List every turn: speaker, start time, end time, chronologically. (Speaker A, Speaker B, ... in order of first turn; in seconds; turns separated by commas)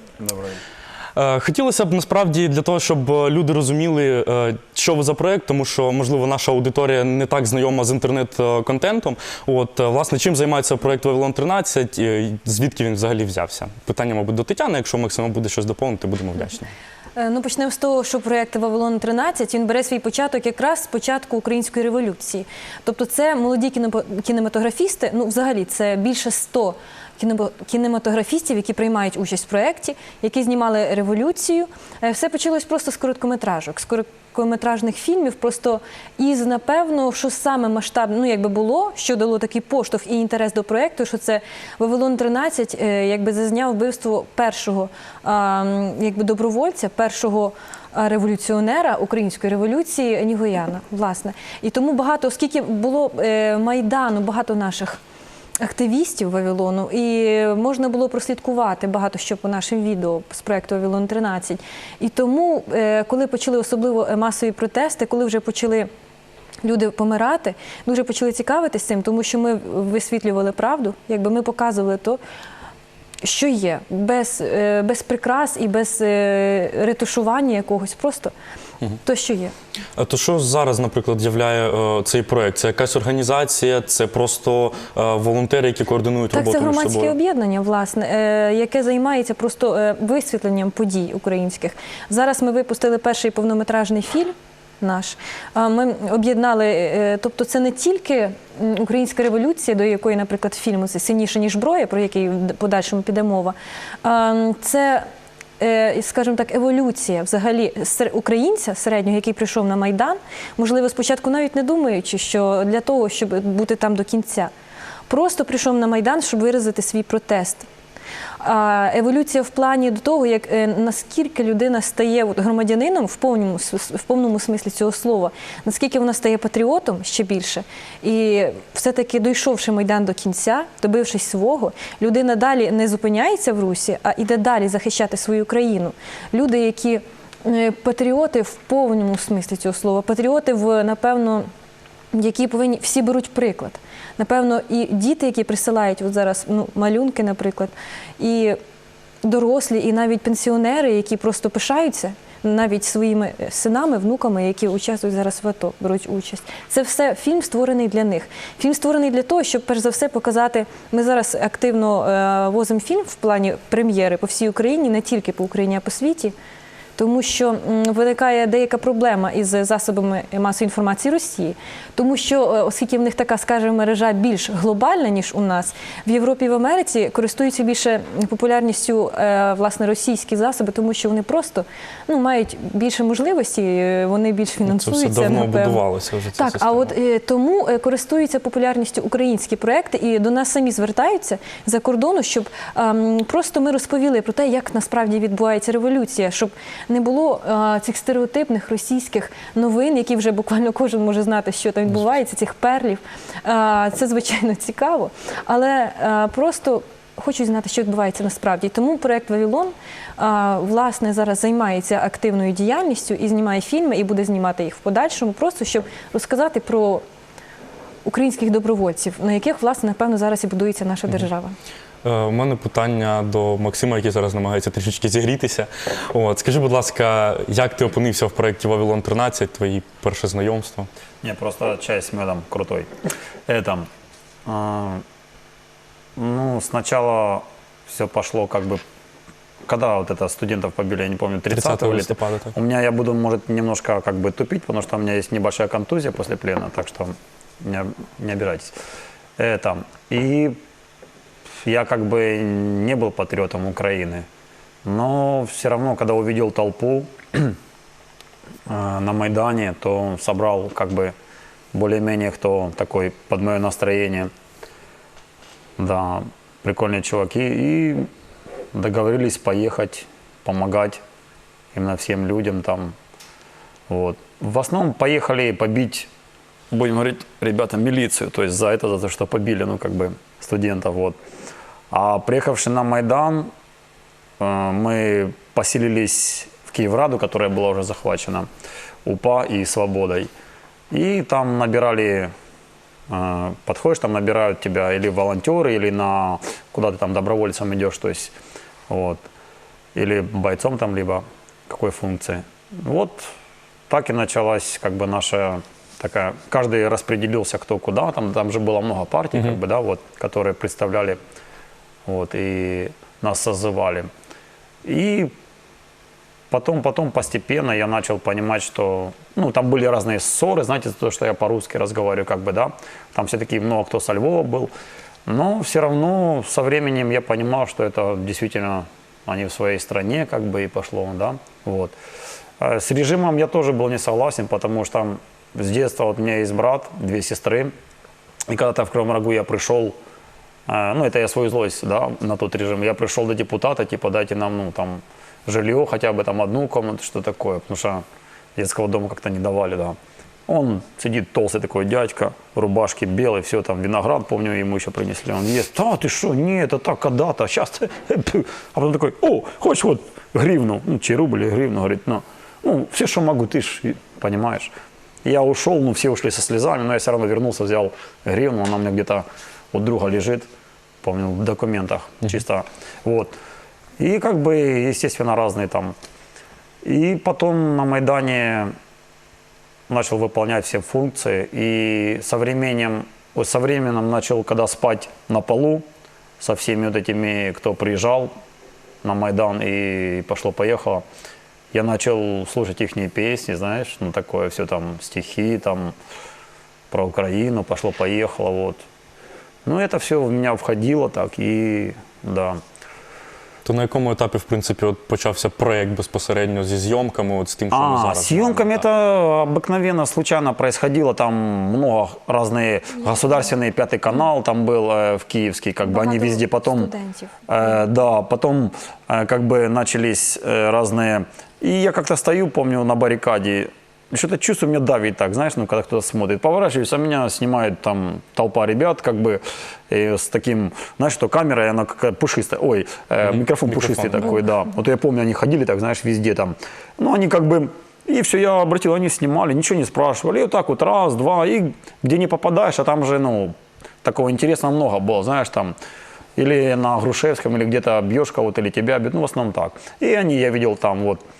Speaker A: 0.2-0.6, Speaker B: 1.1-16.7, Speaker C: 17.2-55.0, Speaker C: 55.6-65.9, Speaker C: 66.6-72.2, Speaker C: 73.2-78.3, Speaker C: 79.0-79.5, Speaker B: 80.0-87.1, Speaker C: 86.3-105.1, Speaker C: 105.6-114.5, Speaker C: 115.1-117.7, Speaker C: 118.4-141.5, Speaker C: 142.1-148.6, Speaker C: 149.2-166.3, Speaker C: 167.0-185.8, Speaker B: 184.6-186.9, Speaker C: 186.3-217.0, Speaker C: 218.0-221.6, Speaker B: 222.0-230.9, Speaker A: 231.2-232.9, Speaker A: 233.5-233.9, Speaker A: 234.4-235.0, Speaker A: 236.2-238.8, Speaker A: 239.7-248.7, Speaker B: 241.5-242.5, Speaker A: 249.4-250.6, Speaker A: 251.6-254.3, Speaker A: 254.8-257.6, Speaker A: 258.7-261.1, Speaker A: 261.7-264.3, Speaker A: 265.8-268.1, Speaker A: 268.7-271.0, Speaker A: 271.7-272.9, Speaker A: 273.9-276.1, Speaker A: 276.7-281.2, Speaker A: 281.9-283.5, Speaker A: 284.4-288.5, Speaker A: 289.0-290.3, Speaker A: 290.9-292.3, Speaker A: 293.1-298.3, Speaker A: 298.9-299.2, Speaker A: 299.9-303.3, Speaker A: 303.9-311.2, Speaker A: 312.1-314.1, Speaker A: 314.8-315.3, Speaker A: 316.5-324.7, Speaker A: 325.3-331.9, Speaker A: 332.6-337.7, Speaker A: 338.5-340.0, Speaker A: 340.7-348.0, Speaker A: 348.6-364.7, Speaker A: 365.2-370.5, Speaker A: 371.0-373.4, Speaker A: 374.0-375.9, Speaker A: 376.8-378.7, Speaker A: 379.9-385.9, Speaker A: 386.4-388.3, Speaker A: 389.0-391.0, Speaker A: 391.7-395.9, Speaker A: 396.9-398.8, Speaker A: 399.6-402.6, Speaker B: 403.6-408.8, Speaker A: 407.7-416.9, Speaker C: 415.8-417.7, Speaker A: 417.5-445.7, Speaker B: 433.2-434.4, Speaker A: 446.4-451.2